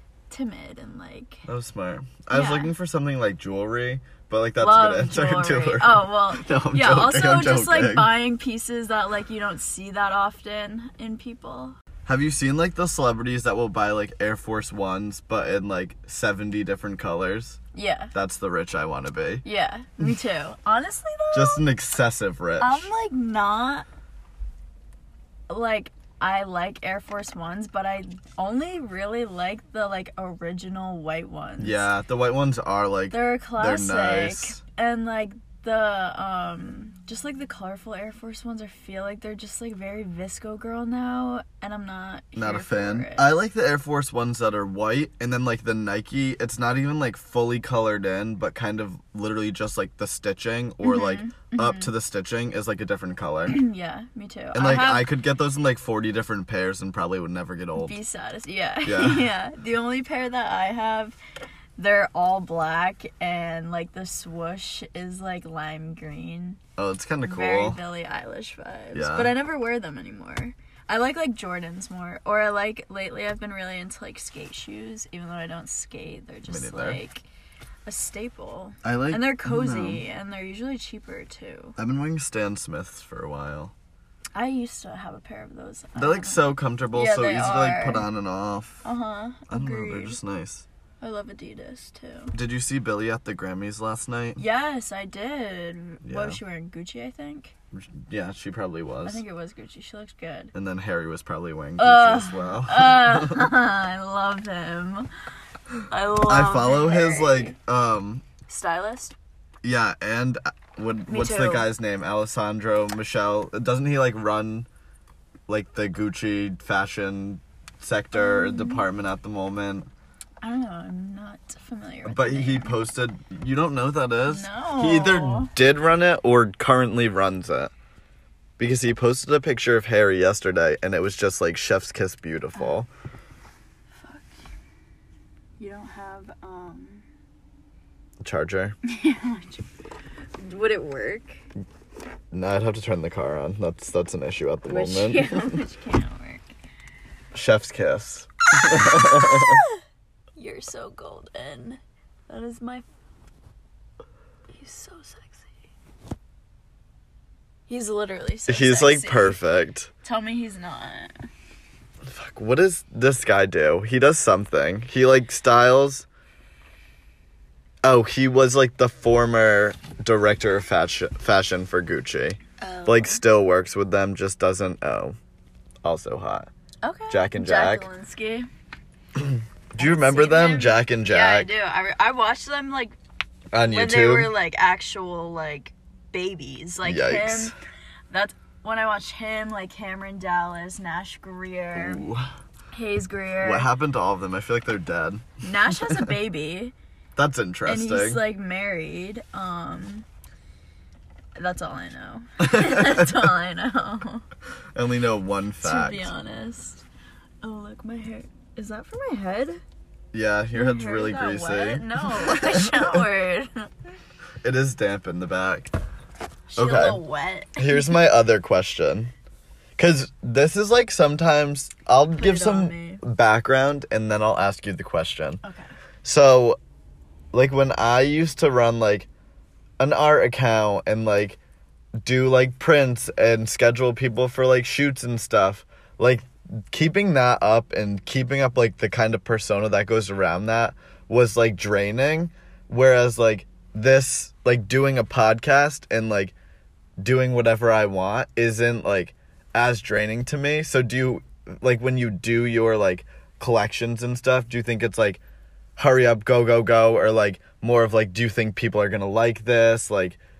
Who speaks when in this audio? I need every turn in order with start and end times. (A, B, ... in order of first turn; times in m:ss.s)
0:00.3-0:01.4 A
0:01.4-0:08.1 B
0:02.3-0:02.7 A
0:04.6-0:11.8 A
0:12.0-0:17.6 B
0:17.7-0:18.1 A
0:18.1-0:19.4 B
0:19.4-0:21.6 A
0:21.3-0:22.9 B
0:22.6-0:23.8 A
0:25.5-0:31.9 A
0:31.6-0:34.6 B
0:33.1-0:43.3 A
0:42.3-0:53.6 B
0:50.8-0:51.9 A
0:53.5-0:55.1 A
0:54.5-0:58.0 B
0:57.8-1:01.2 A
0:58.8-0:59.3 B
1:01.8-1:06.6 A
1:06.8-1:07.8 B
1:07.2-1:17.2 A
1:08.9-1:09.3 B
1:16.5-1:17.0 B
1:17.8-1:21.8 A
1:18.8-1:20.0 B
1:21.8-1:23.7 B
1:24.3-1:28.1 A
1:26.0-1:28.8 B
1:28.8-1:30.2 A
1:29.5-1:30.6 B
1:31.0-1:32.3 A
1:32.3-1:34.4 B
1:34.4-1:37.5 A
1:36.0-1:36.4 B
1:37.7-1:39.2 B
1:39.0-1:40.5 A
1:40.5-1:43.5 B
1:41.8-1:45.1 A
1:45.9-1:47.6 A
1:46.3-1:48.3 B
1:48.5-1:49.2 A
1:49.6-1:54.7 B
1:51.1-1:51.7 A
1:55.5-1:59.9 B
1:58.1-1:58.8 A
2:00.4-2:02.8 A
2:02.1-2:07.7 B
2:04.3-2:05.5 A
2:08.6-2:12.9 B
2:13.9-2:14.4 A
2:15.6-2:17.0 A
2:18.2-2:18.8 B
2:18.8-2:19.6 A
2:20.4-2:21.4 A
2:22.3-2:25.6 B
2:24.6-2:26.4 A
2:27.3-2:29.6 B
2:28.7-2:29.8 A
2:30.3-2:32.9 A
2:34.5-2:35.5 A
2:37.7-2:39.4 A
2:38.5-2:39.9 B
2:40.0-2:41.2 A
2:42.0-2:46.0 B
2:47.8-2:55.2 B
2:52.6-2:53.2 A
2:55.8-2:56.5 B
2:56.8-2:58.5 A
2:57.1-2:57.9 B
2:59.2-3:01.5 B
2:59.8-3:03.0 A
3:03.5-3:04.3 B
3:03.6-3:07.5 A
3:06.8-3:07.5 B
3:08.1-3:12.0 A
3:11.7-3:12.3 B
3:12.7-3:13.7 A
3:13.4-3:16.1 B
3:15.4-3:16.7 A
3:17.2-3:18.2 B
3:17.6-3:20.0 A
3:21.4-3:24.2 A
3:22.4-3:23.2 B
3:24.7-3:26.1 B
3:25.6-3:26.8 A
3:27.4-3:29.6 A
3:30.1-3:33.0 B
3:30.5-3:33.7 A
3:34.4-3:35.7 B
3:36.5-3:38.0 A
3:36.6-3:37.0 B
3:37.6-3:39.1 B
3:39.8-3:45.4 B
3:42.2-3:43.0 A
3:45.4-3:45.7 A
3:46.0-3:46.6 B
3:47.3-3:49.1 B
3:49.8-3:51.4 B
3:52.0-4:06.3 B
4:07.0-4:15.2 B
4:15.8-4:20.2 B